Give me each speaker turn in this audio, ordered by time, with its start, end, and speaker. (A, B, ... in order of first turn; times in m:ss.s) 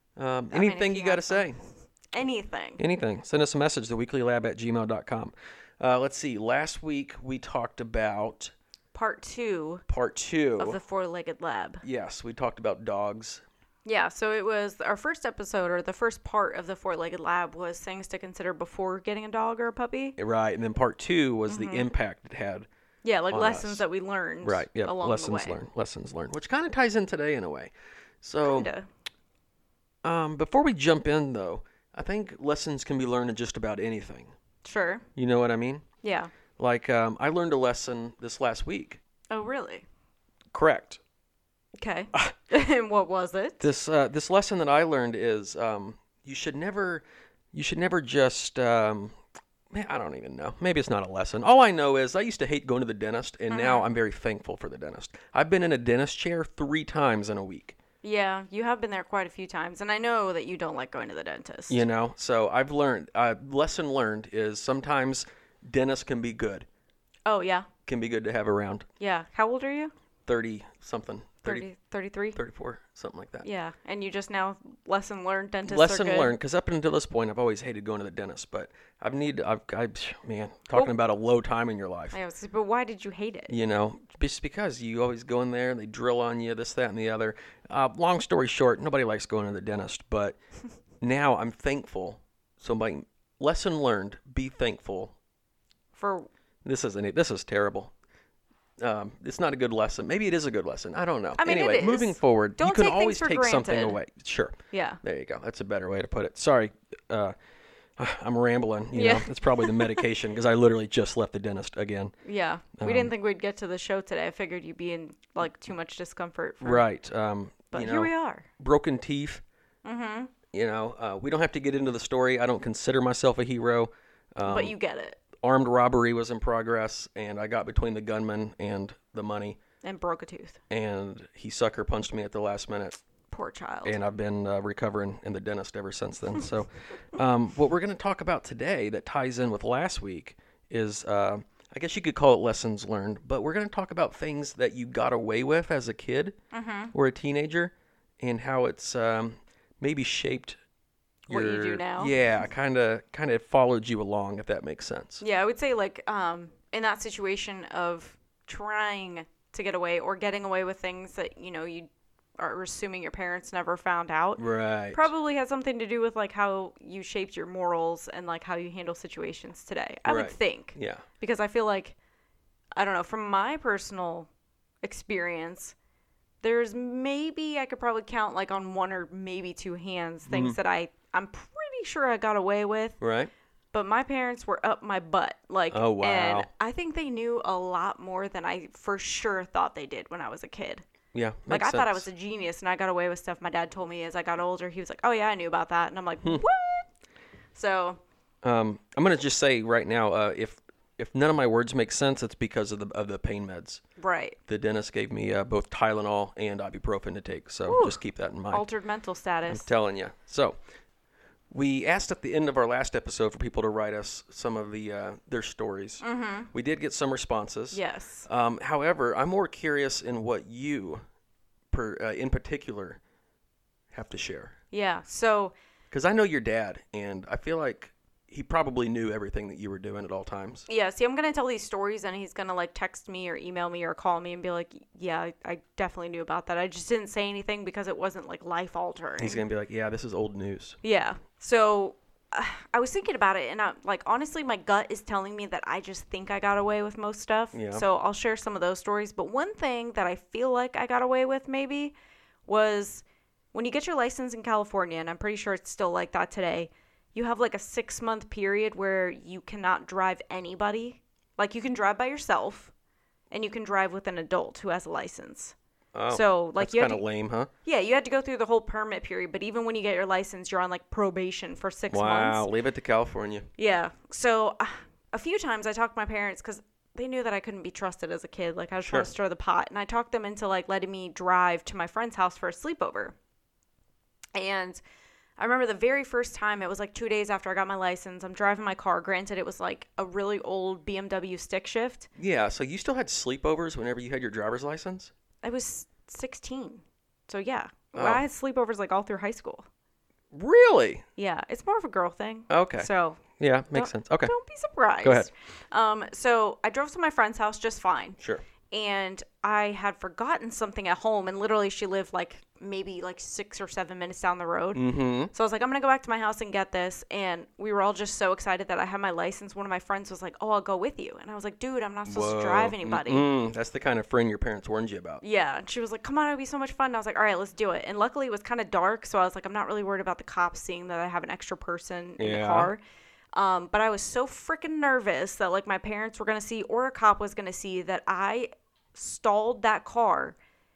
0:00.2-0:01.6 A
0:00.5-0:01.5 B
0:02.1-0:02.8 B
0:02.8-0:08.5 A
0:08.9-0:09.8 B
0:09.9-0:10.8 A
0:10.6-0:11.8 B
0:11.8-0:13.4 A
0:13.8-0:20.2 B
0:20.2-0:22.7 A
0:21.5-0:21.9 B
0:23.0-0:25.6 B
0:23.3-0:23.8 A
0:24.4-0:28.7 A
0:28.4-0:28.9 B
0:30.0-0:34.3 A
0:34.6-0:35.0 B
0:35.2-0:35.8 A
0:36.0-0:36.3 B
0:36.6-0:39.0 A
0:39.3-0:39.8 B
0:40.5-0:41.0 A
0:41.8-0:43.6 B
0:43.6-0:49.2 A
0:49.7-0:57.8 A
0:53.5-0:53.9 B
0:58.0-1:01.8 B
1:01.7-1:06.7 A
1:07.3-1:07.7 B
1:07.9-1:08.9 A
1:09.0-1:09.9 B
1:10.3-1:11.7 A
1:11.4-1:12.4 B
1:12.3-1:13.4 A
1:13.4-1:16.3 B
1:15.6-1:22.2 A
1:22.1-1:23.5 B
1:23.5-1:30.4 A
1:31.0-1:35.2 A
1:35.9-1:36.3 B
1:36.6-1:37.9 A
1:38.8-1:47.3 A
1:41.4-1:44.0 B
1:44.7-1:45.0 B
1:48.0-1:52.1 A
1:48.9-1:50.1 B
1:52.2-1:56.8 B
1:52.8-1:53.1 A
1:56.6-1:59.4 A
1:57.7-1:58.5 B
1:59.8-2:00.3 B
2:00.5-2:04.8 A
2:04.5-2:05.2 B
2:05.4-2:09.6 A
2:09.8-2:10.6 B
2:10.7-2:13.0 A
2:13.3-2:14.0 B
2:13.8-2:26.4 A
2:26.5-2:26.9 B
2:26.9-2:30.6 A
2:31.3-2:32.1 B
2:31.3-2:35.2 A
2:35.2-2:52.0 B
2:44.4-2:45.1 A
2:50.1-2:51.0 A
2:52.8-2:54.3 B
2:54.8-2:55.7 B
2:56.4-3:03.0 B
3:00.3-3:00.6 A
3:03.0-3:03.3 A
3:03.7-3:10.8 B
3:05.7-3:06.5 A
3:11.1-3:12.1 A
3:11.5-3:16.9 B
3:17.6-3:18.0 B
3:18.4-3:23.8 A
3:24.0-3:24.4 B
3:24.5-3:28.7 A
3:27.7-3:28.0 B
3:28.5-3:29.7 B
3:29.5-3:30.6 A
3:31.5-3:41.0 A
3:36.0-3:36.5 B
3:37.7-3:38.3 B
3:41.7-3:43.0 A
3:43.9-3:44.6 A
3:44.7-3:45.5 B
3:45.9-3:50.7 A
3:50.7-3:59.4 B
3:59.2-4:00.8 A
4:00.8-4:12.0 B
4:07.5-4:07.8 A
4:12.5-4:22.7 B
4:23.3-4:25.5 B
4:25.9-4:27.5 A
4:26.1-4:27.0 B
4:27.6-4:32.5 B
4:31.9-4:33.5 A
4:33.6-4:43.1 B
4:38.8-4:39.1 A
4:44.4-4:44.8 B
4:45.4-4:52.1 B
4:52.2-4:55.1 A
4:55.4-4:59.6 B
4:58.0-4:58.2 A
5:00.3-5:01.0 A
5:01.2-5:08.2 B
5:02.5-5:04.3 A
5:05.0-5:05.3 A
5:08.7-5:23.3 B
5:14.8-5:15.3 A
5:22.1-5:25.2 A
5:25.2-5:32.8 B
5:32.2-5:32.7 A
5:33.3-5:40.4 B